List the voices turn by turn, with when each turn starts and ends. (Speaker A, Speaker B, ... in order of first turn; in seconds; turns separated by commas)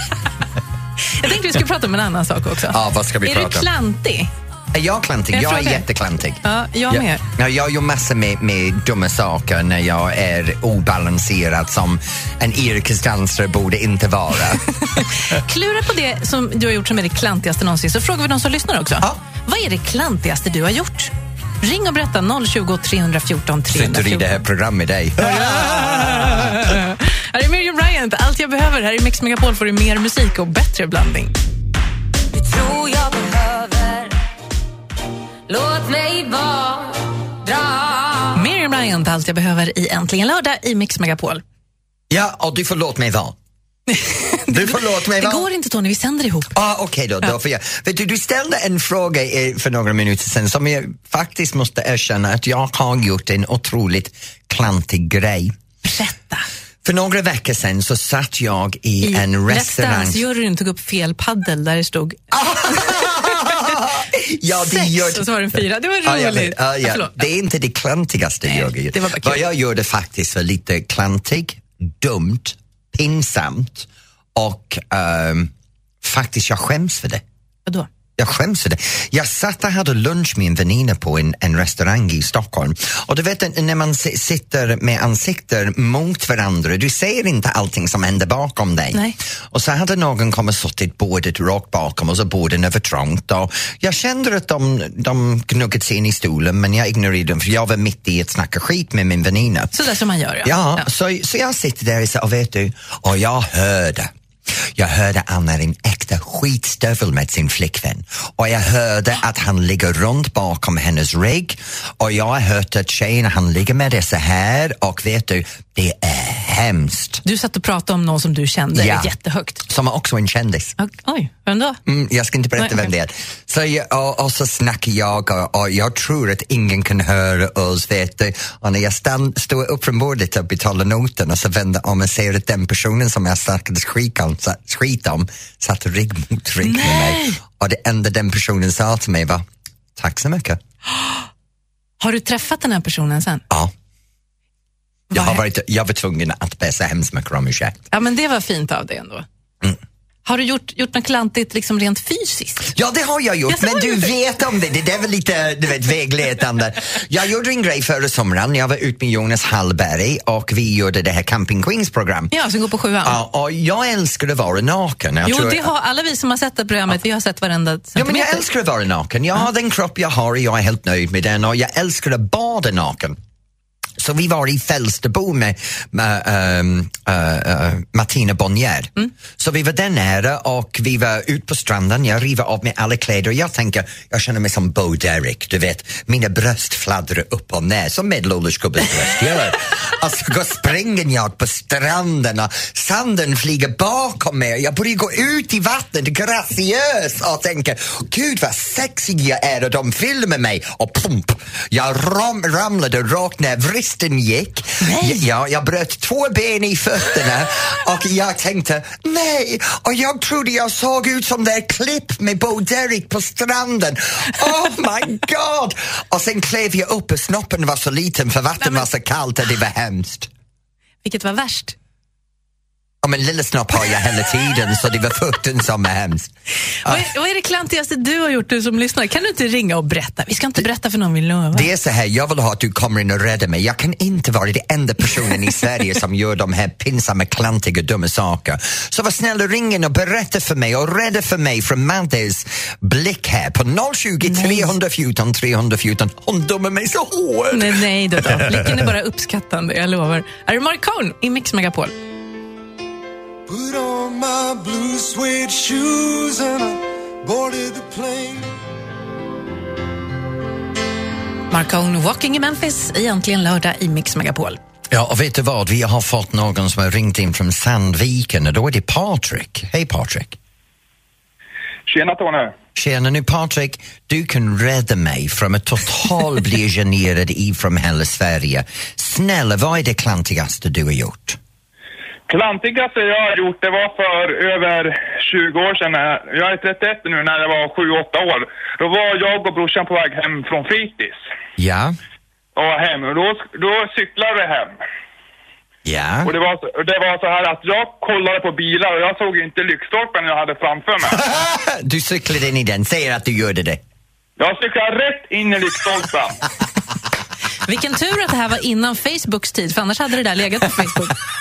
Speaker A: 1.1-4.3, Speaker B: 2.7-3.7, Speaker B: 4.7-15.0, Speaker A: 5.3-5.8, Speaker A: 6.4-7.2, Speaker A: 14.9-24.4, Speaker B: 23.7-26.6, Speaker A: 25.2-31.4, Speaker C: 32.3-34.1, Speaker C: 35.5-38.2, Speaker A: 38.3-41.4, Speaker B: 42.1-43.4, Speaker A: 43.9-46.5, Speaker B: 44.5-45.4, Speaker B: 46.5-55.5, Speaker A: 55.8-56.5, Speaker B: 56.8-60.2, Speaker A: 59.0-63.5, Speaker B: 62.3-75.5, Speaker A: 64.5-67.2, Speaker A: 68.5-69.4, Speaker B: 76.0-77.2, Speaker B: 78.2-99.7, Speaker A: 99.7-100.8, Speaker B: 100.4-104.1, Speaker B: 104.7-117.2, Speaker A: 117.2-119.6, Speaker B: 118.7-119.1, Speaker B: 119.6-120.7, Speaker A: 120.8-121.8, Speaker B: 121.8-139.4, Speaker A: 122.6-122.9, Speaker A: 136.6-137.4, Speaker B: 139.9-140.6, Speaker A: 142.0-143.4, Speaker B: 145.1-147.8, Speaker A: 145.1-145.4, Speaker A: 147.9-149.2, Speaker A: 150.2-152.7, Speaker B: 152.7-162.3, Speaker A: 153.5-154.1, Speaker A: 162.3-163.2, Speaker B: 163.0-165.7, Speaker A: 165.2-168.4, Speaker B: 167.9-173.2, Speaker B: 174.0-220.3, Speaker A: 204.8-205.2, Speaker A: 218.6-218.9, Speaker A: 221.0-221.7, Speaker B: 223.0-226.3, Speaker A: 226.8-231.7, Speaker B: 231.5-248.9, Speaker A: 244.2-244.7, Speaker A: 247.5-251.9, Speaker D: 253.5-258.5, Speaker A: 261.5-264.6, Speaker B: 264.9-270.4, Speaker E: 271.9-272.5, Speaker B: 272.8-281.4, Speaker E: 282.3-291.2, Speaker B: 291.6-291.9, Speaker E: 292.5-294.7, Speaker B: 295.8-296.3, Speaker E: 296.2-301.2, Speaker B: 301.1-303.8, Speaker E: 304.4-306.4, Speaker A: 307.6-311.2